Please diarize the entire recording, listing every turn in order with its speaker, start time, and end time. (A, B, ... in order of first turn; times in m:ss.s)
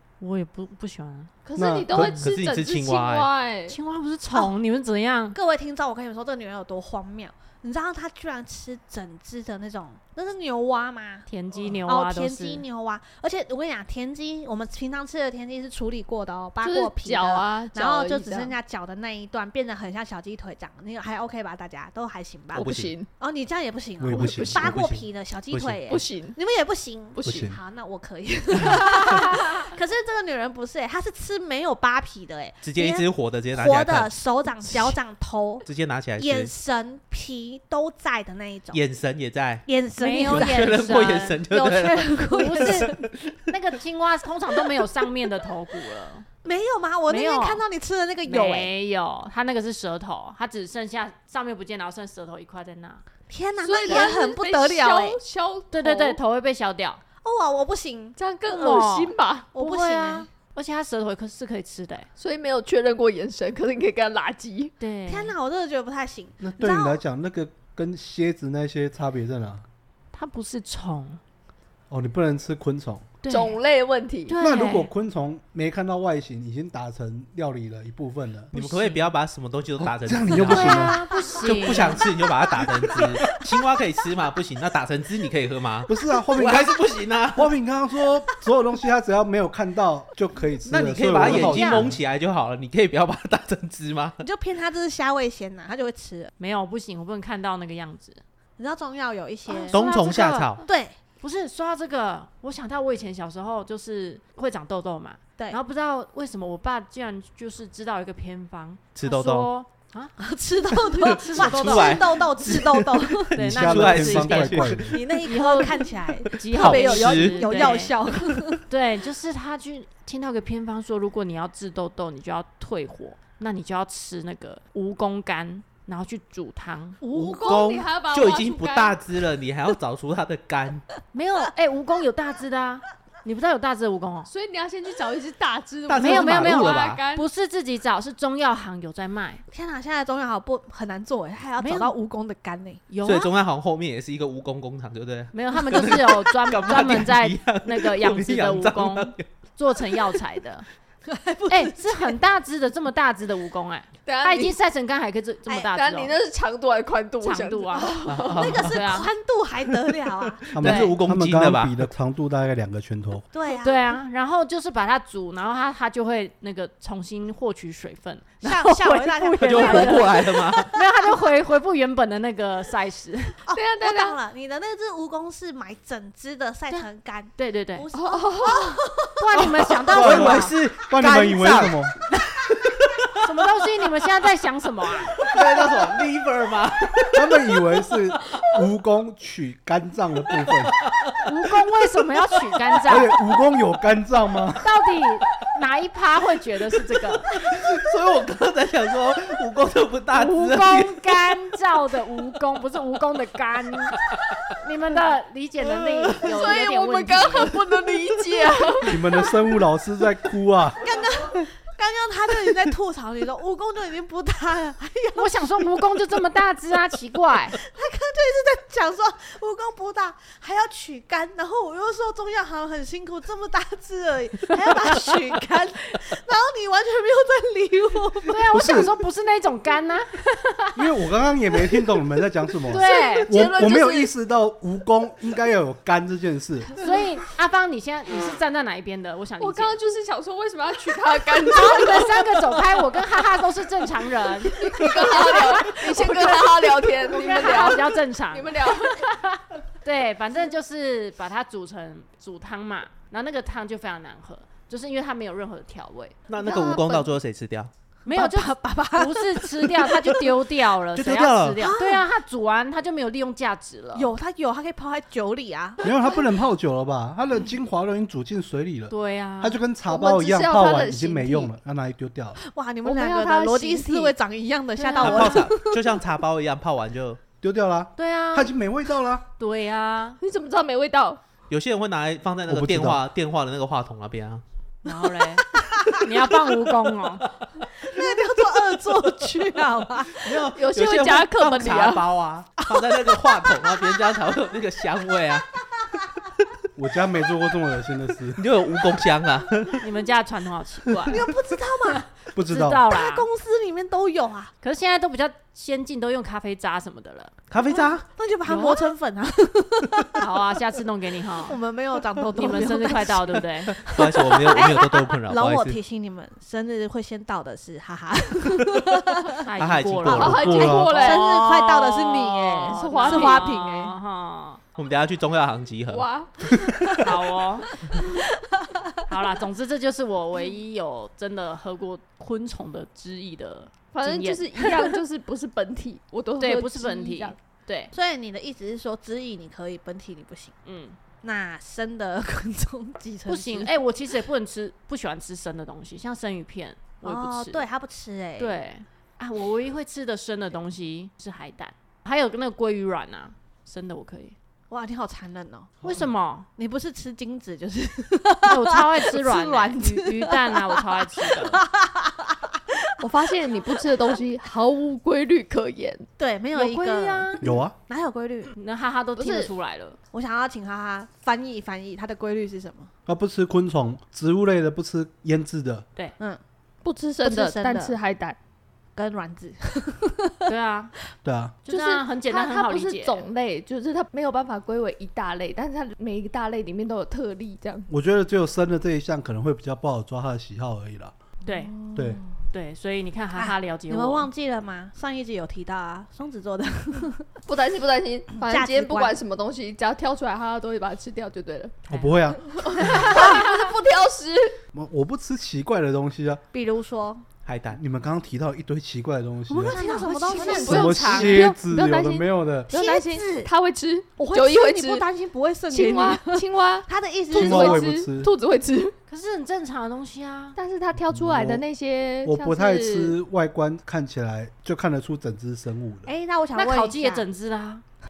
0:00.2-0:01.3 A
0:01.4-0:03.8 B
0:01.6-0:02.2 C
0:01.9-0:03.3 D
0:03.7-0:05.4 A
0:05.3-0:11.3 E
0:11.3-0:12.6 A
0:11.8-0:35.7 E
0:16.6-0:18.5 B
0:22.5-0:23.1 B
0:22.6-0:22.9 D
0:24.0-0:24.7 C
0:24.1-0:24.7 B
0:24.5-0:25.8 D
0:25.9-0:26.4 B
0:27.1-0:27.5 B
0:27.2-0:27.6 C
0:32.6-0:34.1 D
0:35.6-0:36.5 D
0:36.2-0:38.8 E
0:38.7-0:39.6 D
0:39.6-0:43.0 E
0:40.0-0:41.4 A
0:40.3-0:43.4 D
0:42.3-0:42.9 A
0:43.5-0:46.3 A
0:46.4-0:48.7 E
0:47.1-0:47.6 A
0:48.2-0:53.0 A
0:53.3-0:55.2 E
0:53.6-0:56.2 B
0:55.7-0:57.0 A
0:57.2-0:58.2 E
0:58.2-0:59.5 B
0:58.5-1:02.1 A
0:59.5-1:00.3 E
1:02.2-1:04.7 B
1:04.8-1:05.4 A
1:05.1-1:07.0 E
1:06.4-1:09.6 C
1:10.1-1:11.2 A
1:11.9-1:13.1 C
1:13.2-1:13.6 A
1:13.3-1:14.4 B
1:14.3-1:14.9 A
1:14.4-1:18.5 C
1:18.5-1:27.5 D
1:18.5-1:19.0 A
1:19.8-1:21.0 C
1:20.3-1:22.0 A
1:25.9-1:32.0 C
1:30.7-1:34.2 D
1:31.2-1:31.9 A
1:34.2-1:36.3 E
1:36.4-1:38.2 A
1:38.6-1:39.8 E
1:39.5-1:40.6 A
1:39.7-1:40.6 D
1:40.6-1:41.0 E
1:41.2-1:50.2 A
1:48.9-1:49.5 D
1:50.2-1:53.4 E
1:51.0-1:52.1 A
1:51.0-1:55.2 D
1:53.4-1:55.0 C
1:53.4-1:57.9 A
1:54.9-1:58.6 E
1:56.1-1:58.5 D
1:58.7-2:07.0 A
2:07.0-2:09.0 B
2:07.1-2:10.8 D
2:11.2-2:14.3 A
2:11.2-2:11.5 E
2:14.3-2:17.3 B
2:15.9-2:17.0 D
2:16.0-2:19.4 A
2:19.5-2:22.8 E
2:21.6-2:21.9 A
2:22.9-2:23.3 A
2:23.0-2:29.2 D
2:25.3-2:30.7 A
2:31.0-2:32.2 E
2:31.5-2:36.2 A
2:34.0-2:34.5 B
2:35.5-2:38.6 B
2:37.2-2:39.1 A
2:38.1-2:38.7 D
2:38.4-2:40.4 E
2:39.9-2:41.9 D
2:40.5-2:43.2 C
2:40.6-2:40.9 A
2:43.3-2:43.9 E
2:43.6-2:53.4 A
2:48.4-2:50.7 E
2:49.4-2:50.7 D
2:53.4-2:59.5 E
2:53.5-2:54.2 B
2:56.7-2:57.9 A
2:57.9-2:58.8 B
2:59.2-3:00.5 A
2:59.4-3:01.8 D
2:59.9-3:01.9 C
3:02.5-3:03.1 D
3:03.2-3:05.1 A
3:05.2-3:07.6 D
3:07.1-3:10.8 C
3:10.4-3:11.2 D
3:11.2-3:13.1 A
3:12.8-3:14.7 C
3:14.6-3:17.3 A
3:17.3-3:21.3 D
3:20.1-3:24.0 A
3:24.6-3:27.6 A
3:26.2-3:29.0 B
3:28.9-3:30.8 C
3:30.8-3:35.8 E
3:35.1-3:37.6 A
3:37.5-3:48.7 E
3:48.3-3:50.8 A
3:48.5-3:48.9 C
3:50.8-3:56.7 C
3:52.7-3:53.3 A
3:52.7-3:54.1 B
3:56.8-3:59.8 A
3:59.4-4:02.3 B
4:01.5-4:16.2 A
4:04.5-4:09.0 B
4:16.3-4:17.7 D
4:16.4-4:17.1 E
4:18.0-4:24.1 A
4:18.1-4:20.3 E
4:20.9-4:21.7 D
4:21.6-4:22.1 E
4:23.9-4:26.2 E
4:25.8-4:32.4 C
4:28.9-4:29.6 A
4:29.9-4:31.5 B
4:32.4-4:36.0 E
4:32.8-4:34.1 B
4:34.8-4:35.4 A
4:35.0-4:37.2 D
4:37.4-4:39.2 C
4:38.0-4:38.6 A
4:39.4-4:40.2 A
4:40.2-4:41.2 B
4:41.5-4:44.4 D
4:42.5-4:43.0 C
4:44.8-4:47.2 A
4:47.8-4:50.4 E
4:50.2-4:55.5 D
4:50.5-4:52.0 B
4:56.8-4:58.4 C
4:58.4-4:59.8 D
4:59.8-5:01.2 A
5:01.1-5:02.1 E
5:02.3-5:02.8 C
5:02.4-5:03.3 A
5:02.9-5:04.5 E
5:04.6-5:07.3 A
5:07.5-5:08.0 D
5:07.7-5:10.3 E
5:08.4-5:08.9 A
5:10.2-5:11.6 A
5:11.4-5:19.4 E
5:12.3-5:13.8 A
5:13.8-5:15.8 D
5:19.4-5:24.6 A
5:19.6-5:20.6 D
5:20.1-5:21.4 B
5:20.3-5:21.0 C
5:20.7-5:23.9 E
5:22.7-5:23.5 B
5:24.8-5:26.1 D
5:25.9-5:26.5 B
5:27.0-5:27.7 A
5:28.5-5:29.0 E
5:29.1-5:34.9 A
5:33.9-5:37.4 B
5:36.4-5:37.9 A
5:37.9-5:40.5 E
5:40.6-5:41.0 A
5:41.2-5:43.7 E
5:43.3-5:47.6 A
5:47.0-5:48.6 E
5:48.4-5:54.4 A
5:54.7-5:55.8 E
5:55.8-5:56.5 A
5:56.6-6:04.0 E
5:58.5-6:01.6 A
6:03.0-6:06.1 B
6:06.2-6:08.5 E
6:06.5-6:07.4 A
6:07.4-6:07.7 C
6:08.5-6:10.0 A
6:09.2-6:09.5 B
6:10.1-6:12.9 E
6:13.0-6:15.8 C
6:16.8-6:18.4 B
6:17.2-6:17.9 E
6:18.9-6:20.5 E
6:20.5-6:20.9 A
6:21.2-6:21.6 C
6:21.6-6:23.2 A
6:21.7-6:27.9 B
6:27.9-6:31.1 C
6:31.4-6:31.7 A
6:32.0-6:32.2 C
6:32.5-6:34.3 A
6:33.4-6:37.4 E
6:37.5-6:41.8 B
6:38.3-6:39.2 E
6:41.9-6:42.2 A
6:41.9-6:42.4 C
6:42.3-6:44.6 B
6:42.8-6:43.5 A
6:42.8-6:43.5 E
6:44.7-6:46.4 C
6:46.5-6:47.2 E
6:47.4-6:47.8 D
6:47.7-6:49.8 C
6:49.5-6:51.4 E
6:49.7-6:51.4 A
6:49.8-6:55.0 B
6:50.5-6:52.7 C
6:52.7-6:53.5 E
6:54.2-6:57.8 E
6:55.7-6:59.0 B
6:57.3-6:58.3 C
6:59.1-7:00.6 A
7:00.6-7:03.2 B
7:00.9-7:01.6 C
7:02.2-7:06.1 C
7:06.0-7:07.2 E
7:06.6-7:07.8 A